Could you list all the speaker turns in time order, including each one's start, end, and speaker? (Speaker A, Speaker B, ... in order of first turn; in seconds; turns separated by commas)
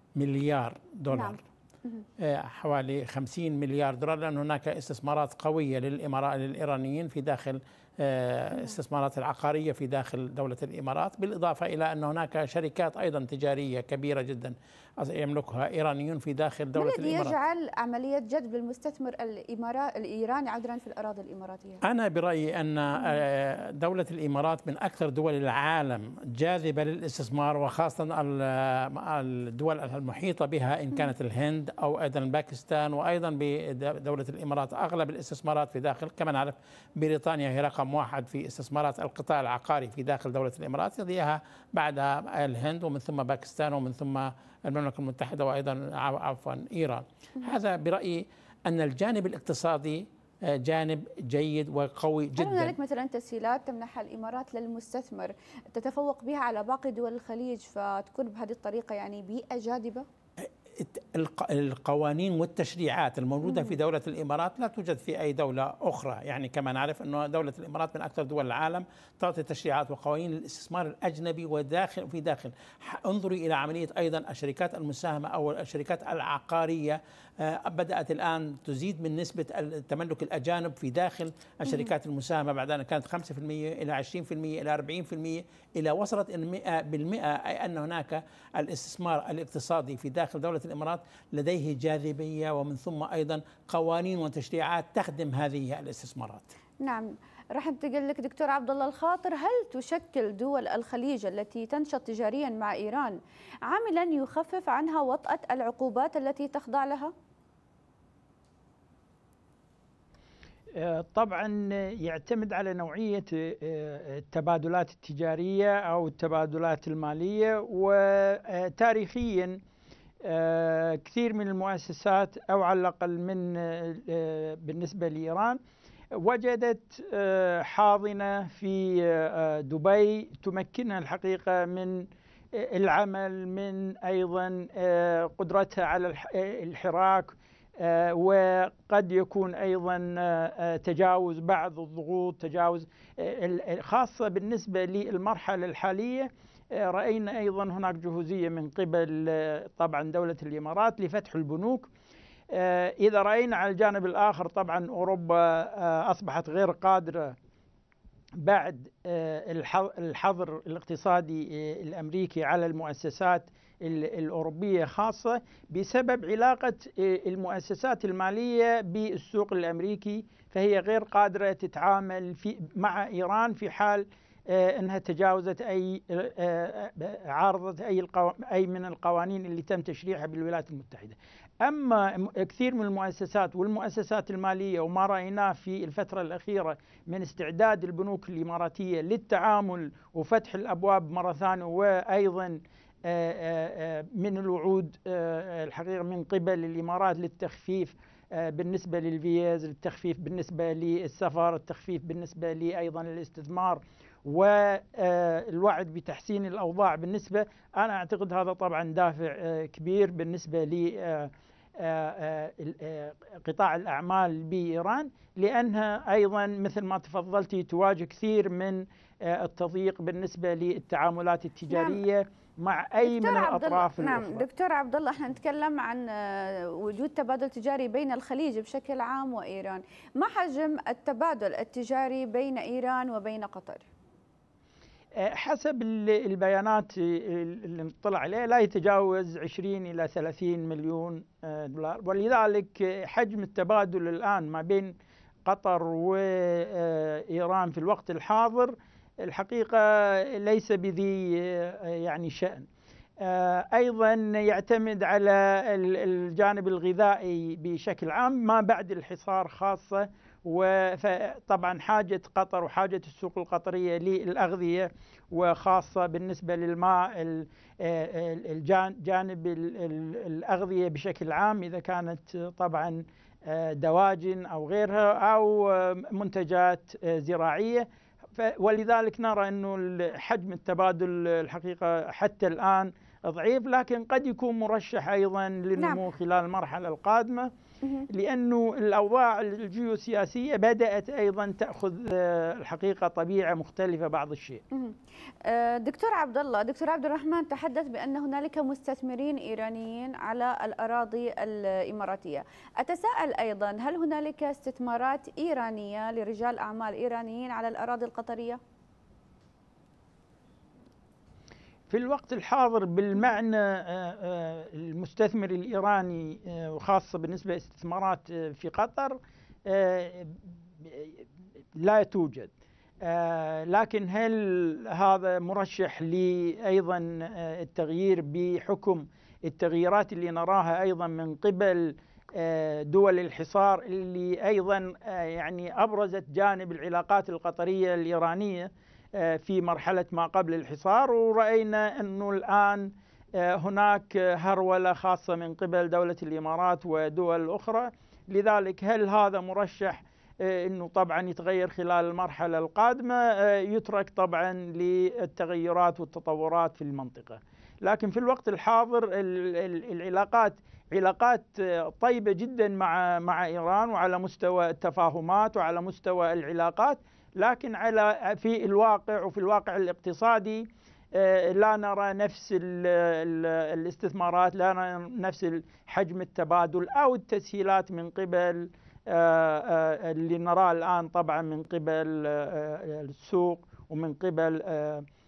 Speaker A: 0.2-1.4, Speaker B: 1.1-2.0, Speaker A: 2.2-17.3, Speaker B: 16.8-21.8, Speaker A: 21.8-52.7, Speaker B: 52.4-60.0, Speaker A: 60.8-96.4, Speaker B: 63.4-63.7, Speaker B: 81.7-81.9, Speaker B: 96.8-107.1, Speaker C: 110.7-119.6, Speaker C: 120.2-125.6, Speaker C: 126.1-151.9, Speaker C: 152.5-157.3, Speaker C: 158.4-224.4, Speaker B: 221.7-222.0, Speaker B: 223.0-233.9, Speaker C: 235.2-252.7, Speaker C: 253.2-287.5, Speaker B: 285.8-286.0, Speaker B: 287.8-288.1, Speaker C: 288.1-294.6, Speaker B: 294.7-308.6, Speaker C: 311.9-321.2, Speaker C: 321.8-322.5, Speaker C: 323.0-385.1